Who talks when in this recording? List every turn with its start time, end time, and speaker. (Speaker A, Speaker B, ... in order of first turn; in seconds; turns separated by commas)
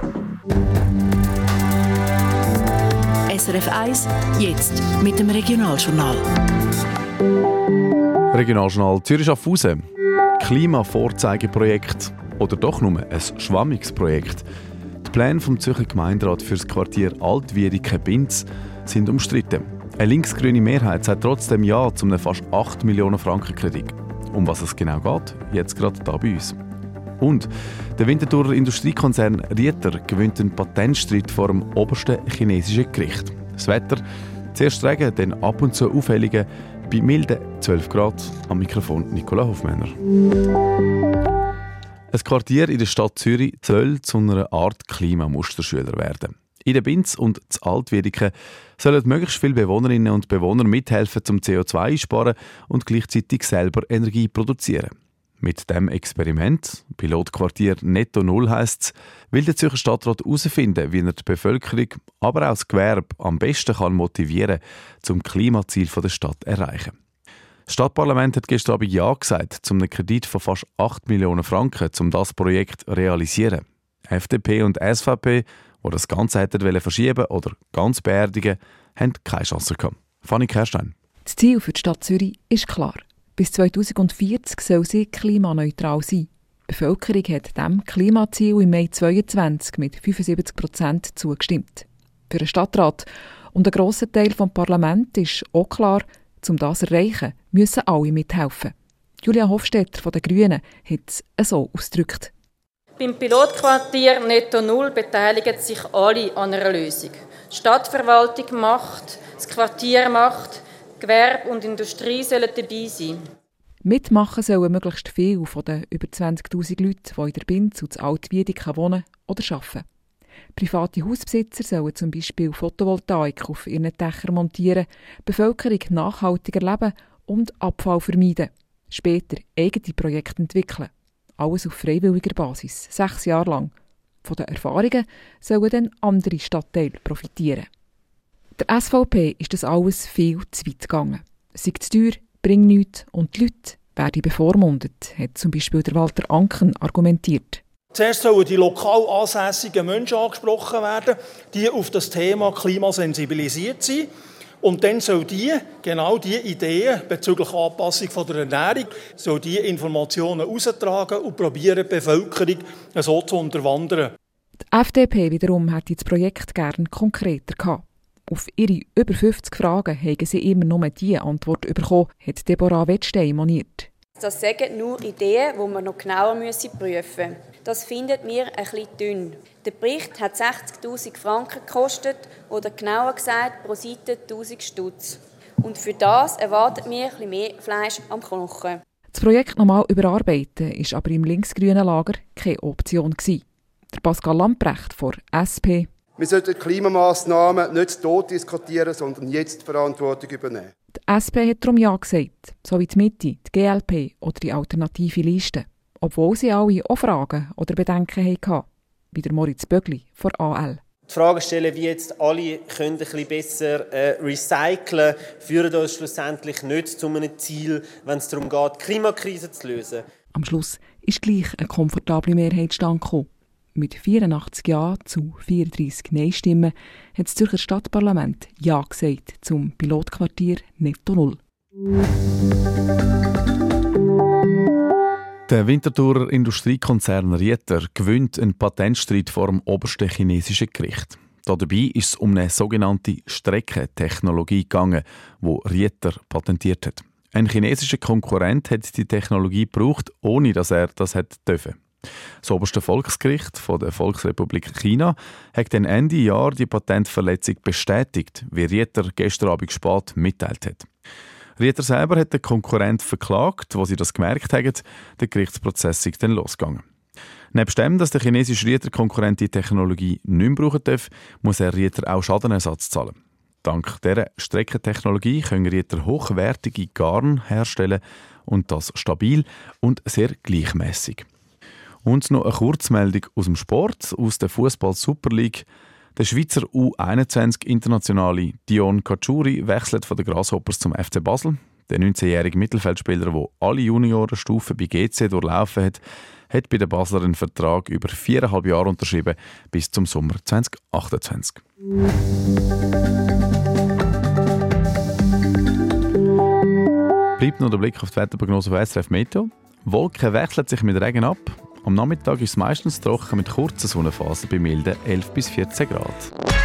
Speaker A: 3.3-6.3, Speaker B: 8.3-9.8, Speaker B: 10.4-14.4, Speaker B: 15.0-26.6, Speaker B: 27.2-34.0, Speaker B: 34.5-39.9, Speaker B: 42.1-66.9, Speaker B: 67.7-80.9, Speaker C: 81.2-102.3, Speaker D: 103.0-113.2, Speaker C: 113.8-119.8, Speaker C: 120.5-133.7, Speaker C: 134.2-137.7, Speaker C: 138.6-147.6, Speaker E: 147.9-154.1, Speaker E: 154.6-164.1, Speaker C: 164.7-173.9, Speaker F: 174.2-188.8, Speaker C: 189.1-195.9, Speaker G: 196.2-200.7, Speaker C: 200.9-210.8, Speaker H: 211.1-220.1, Speaker C: 220.3-231.4, Speaker B: 235.5-251.8, Speaker B: 252.4-260.9, Speaker B: 261.6-266.8, Speaker B: 267.5-281.2, Speaker B: 282.0-285.6, Speaker B: 286.1-301.6, Speaker B: 307.4-316.3